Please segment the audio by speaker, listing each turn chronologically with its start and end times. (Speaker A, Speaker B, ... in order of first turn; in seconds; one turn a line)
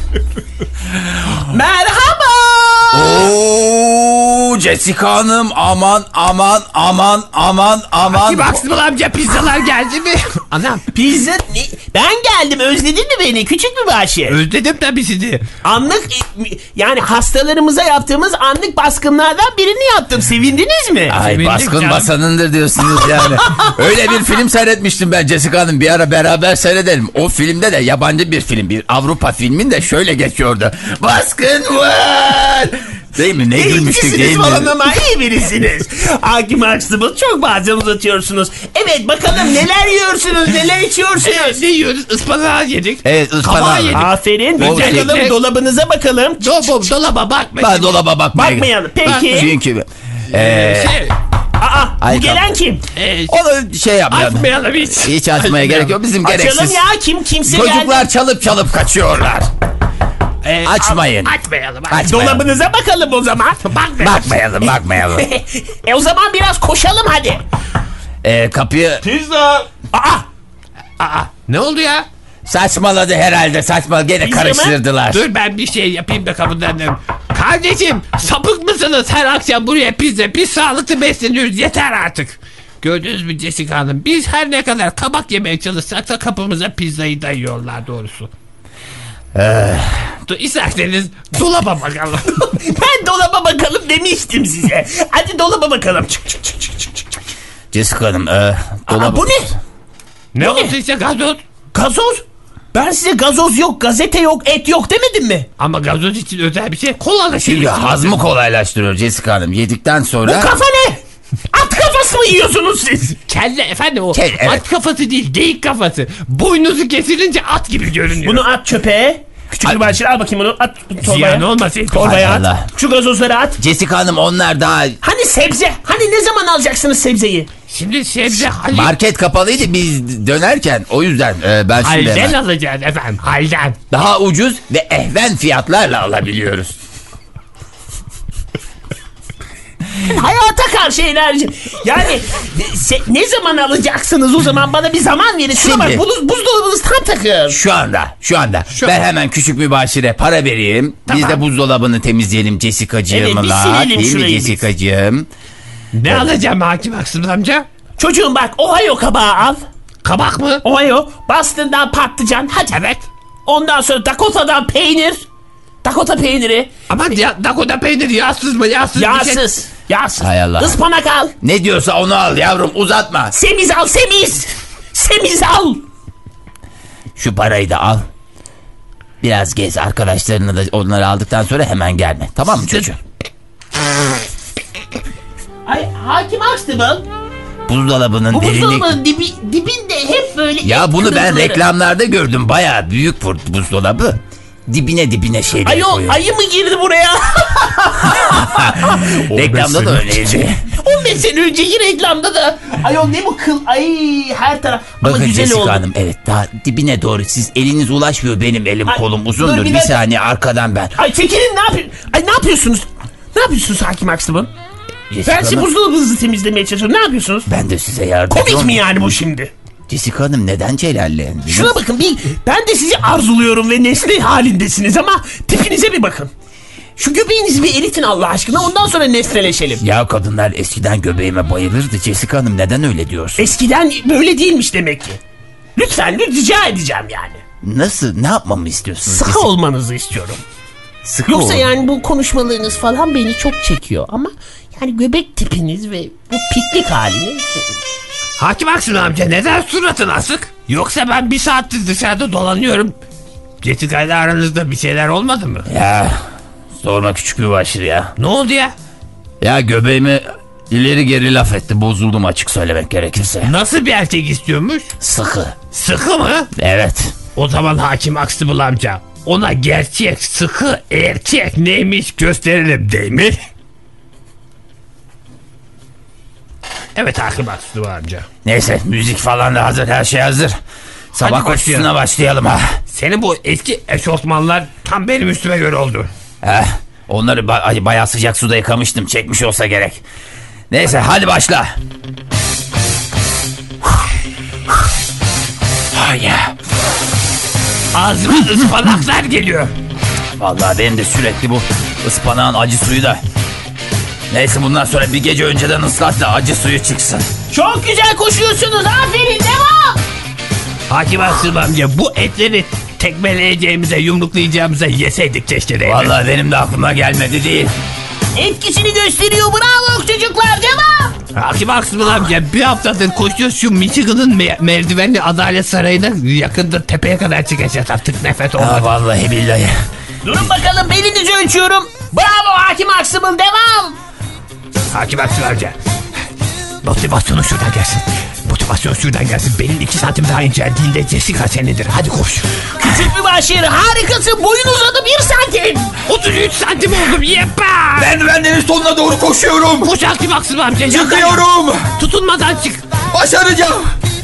Speaker A: 1.5-3.3
Speaker B: 2.9-8.6
Speaker C: 8.0-10.8
Speaker A: 10.9-14.4
Speaker C: 14.3-15.4
Speaker A: 15.6-21.1
Speaker B: 21.1-34.7
Speaker C: 21.1-22.1
Speaker A: 33.5-41.6
Speaker C: 41.2-45.4
Speaker B: 43.0-45.2
Speaker A: 43.9-46.7
Speaker C: 46.4-48.0
Speaker B: 47.6-51.1
Speaker A: 48.3-49.5
Speaker C: 49.0-49.5
Speaker C: 50.3-51.1
Speaker A: 51.6-52.8
Speaker B: 52.0-52.5
Speaker C: 52.9-53.4
Speaker B: 53.3-56.8
Speaker C: 54.1-56.0
Speaker A: 56.2-58.1
Speaker B: 57.5-59.5
Speaker C: 60.4-62.1
Speaker B: 60.6-61.3
Speaker B: 61.9-62.5
Speaker A: 62.0-63.8
Speaker C: 63.7-64.2
Speaker B: 64.0-65.3
Speaker A: 64.6-67.4
Speaker B: 68.2-69.0
Speaker A: 69.0-70.2
Speaker C: 71.0-72.0
Speaker B: 72.5-75.2
Speaker A: 74.2-74.8
Speaker C: 75.1-88.3
Speaker B: 89.3-90.1
Speaker C: 90.3-92.5
Speaker A: 92.4-97.1
Speaker B: 97.7-99.3
Speaker A: 98.9-99.5
Speaker C: 100.3-101.4
Speaker A: 100.4-100.7
Speaker A: 101.7-105.5
Speaker C: 105.6-108.2
Speaker B: 107.4-110.5
Speaker A: 110.2-111.0
Speaker A: 111.5-113.2
Speaker C: 113.3-118.4
Speaker B: 114.1-114.6
Speaker A: 118.2-123.6
Speaker C: 121.0-122.4
Speaker B: 122.0-122.7
Speaker B: 123.6-125.0
Speaker A: 125.0-127.5
Speaker C: 127.7-128.9
Speaker B: 128.6-132.3
Speaker C: 131.8-133.8
Speaker B: 133.9-136.8
Speaker A: 140.0-147.6
Speaker B: 145.5-146.0
Speaker B: 147.5-155.3
Speaker A: 153.1-154.6
Speaker C: 155.9-157.7
Speaker A: 158.0-159.6
Speaker C: 160.0-160.6
Speaker A: 160.6-162.8
Speaker C: 162.7-163.1
Speaker A: 163.4-165.2
Speaker A: 165.8-166.7
Speaker C: 166.9-169.4
Speaker A: 168.9-171.3
Speaker B: 170.2-170.8
Speaker B: 171.4-173.3
Speaker A: 173.3-175.8
Speaker B: 177.2-178.1
Speaker B: 179.2-183.0
Speaker A: 185.7-187.1
Speaker B: 187.7-188.9
Speaker A: 188.3-191.6
Speaker B: 190.6-196.2
Speaker A: 195.6-199.8
Speaker B: 198.1-200.6
Speaker A: 200.7-205.8
Speaker B: 205.0-210.9
Speaker A: 208.9-210.0
Speaker A: 211.0-214.5
Speaker B: 215.1-215.7
Speaker A: 215.2-217.5
Speaker B: 217.4-218.8
Speaker A: 218.3-219.5
Speaker B: 219.9-221.7
Speaker A: 221.5-226.3
Speaker A: 227.0-229.8
Speaker B: 229.8-233.5
Speaker A: 233.4-235.2
Speaker A: 235.8-237.4
Speaker B: 237.6-239.5
Speaker A: 239.1-240.4
Speaker B: 241.0-241.7
Speaker A: 241.3-247.7
Speaker C: 248.4-252.9
Speaker C: 253.6-255.7
Speaker B: 255.7-256.2
Speaker B: 256.8-258.1
Speaker C: 258.2-258.7
Speaker B: 259.4-263.5
Speaker C: 263.4-264.9
Speaker B: 265.0-265.6
Speaker C: 265.7-266.5
Speaker B: 266.6-267.1
Speaker C: 267.4-273.4
Speaker C: 276.9-278.2
Speaker B: 278.4-280.6
Speaker C: 281.1-281.9
Speaker B: 281.1-282.8
Speaker C: 282.9-286.1
Speaker B: 286.4-290.0
Speaker B: 290.7-291.7
Speaker B: 295.9-296.5
Speaker C: 297.9-299.7
Speaker B: 300.4-303.2
Speaker B: 304.3-307.3
Speaker A: 307.5-310.0
Speaker C: 310.9-316.1
Speaker B: 315.8-317.7
Speaker A: 318.3-321.1
Speaker C: 321.3-328.9
Speaker B: 328.6-329.8
Speaker A: 330.2-334.0
Speaker C: 334.9-335.8
Speaker C: 336.8-342.5
Speaker A: 342.8-345.9
Speaker C: 346.1-348.1
Speaker B: 348.0-349.9
Speaker C: 349.8-351.4
Speaker B: 350.9-351.9
Speaker C: 352.0-352.8
Speaker B: 353.1-353.9